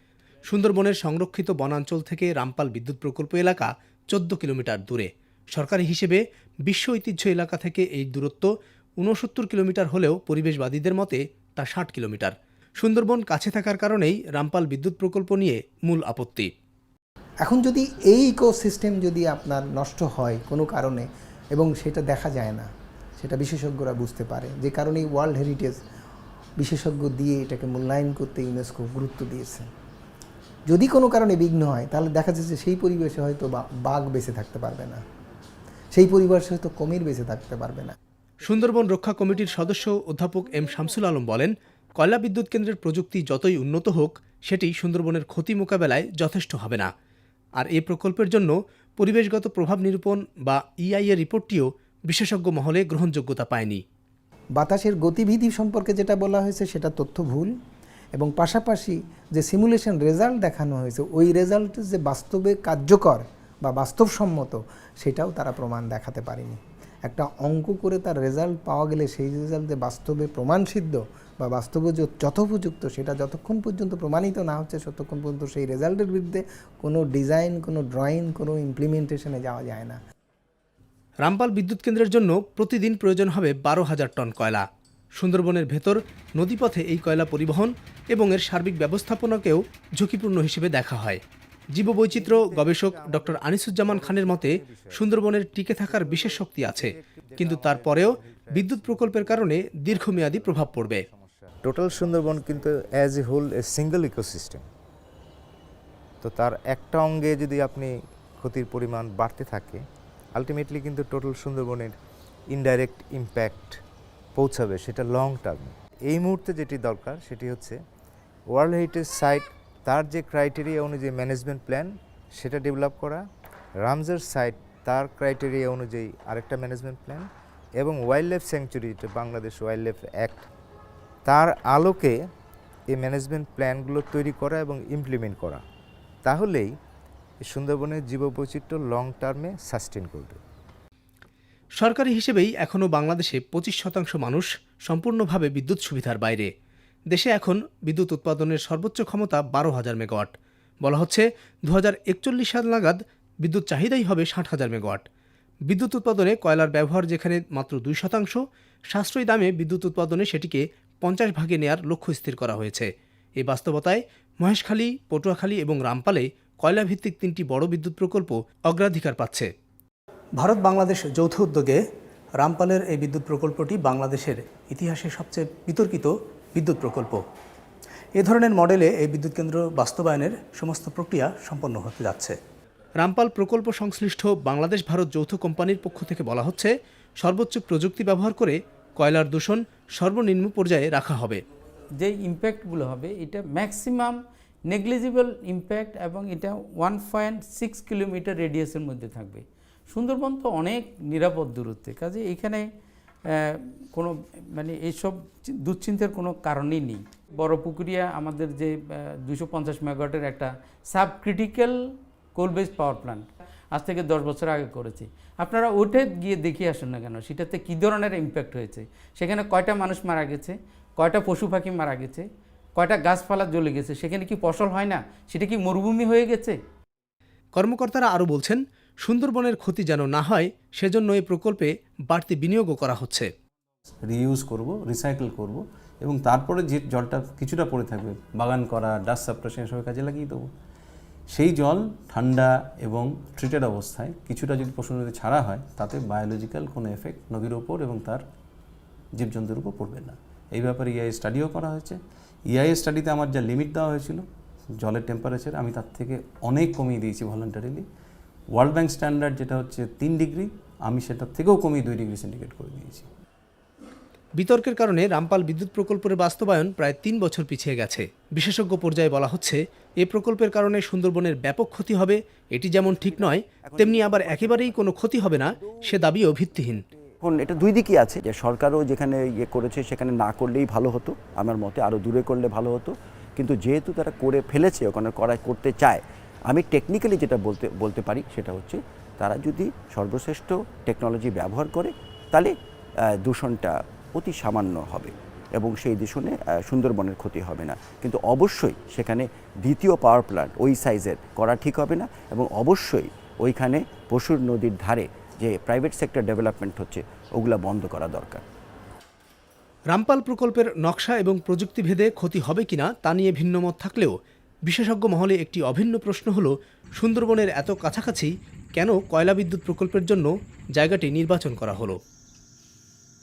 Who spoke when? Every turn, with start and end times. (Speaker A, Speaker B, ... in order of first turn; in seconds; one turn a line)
Speaker A: 0.5-16.5
Speaker B: 17.4-22.7
Speaker B: 23.2-25.8
Speaker B: 26.6-29.7
Speaker B: 30.7-35.0
Speaker B: 35.9-38.0
Speaker A: 38.4-46.9
Speaker A: 47.6-53.8
Speaker B: 54.6-57.5
Speaker B: 58.1-80.0
Speaker A: 81.2-84.6
Speaker A: 85.2-91.2
Speaker A: 91.7-101.0
Speaker C: 92.0-95.1
Speaker C: 95.9-104.7
Speaker C: 106.2-109.8
Speaker C: 110.3-112.0
Speaker C: 112.5-113.8
Speaker C: 114.3-117.8
Speaker C: 118.5-123.2
Speaker C: 123.8-127.3
Speaker C: 127.8-130.4
Speaker C: 131.2-132.1
Speaker C: 132.9-135.6
Speaker C: 136.2-136.7
Speaker C: 137.4-140.4
Speaker A: 141.8-146.5
Speaker A: 147.1-155.1
Speaker A: 155.7-169.5
Speaker A: 170.3-171.8
Speaker A: 172.4-177.2
Speaker A: 178.2-182.4
Speaker A: 183.0-191.4
Speaker D: 192.0-194.2
Speaker D: 194.7-202.7
Speaker D: 203.3-211.8
Speaker D: 212.3-222.2
Speaker D: 222.8-226.6
Speaker A: 227.5-233.3
Speaker E: 234.1-240.5
Speaker E: 241.3-248.2
Speaker E: 249.2-252.0
Speaker E: 252.5-254.2
Speaker E: 254.8-257.8
Speaker E: 258.5-263.1
Speaker A: 264.4-276.8
Speaker F: 272.8-276.4
Speaker F: 277.2-292.5
Speaker F: 293.2-308.4
Speaker A: 309.9-314.1
Speaker A: 314.6-322.0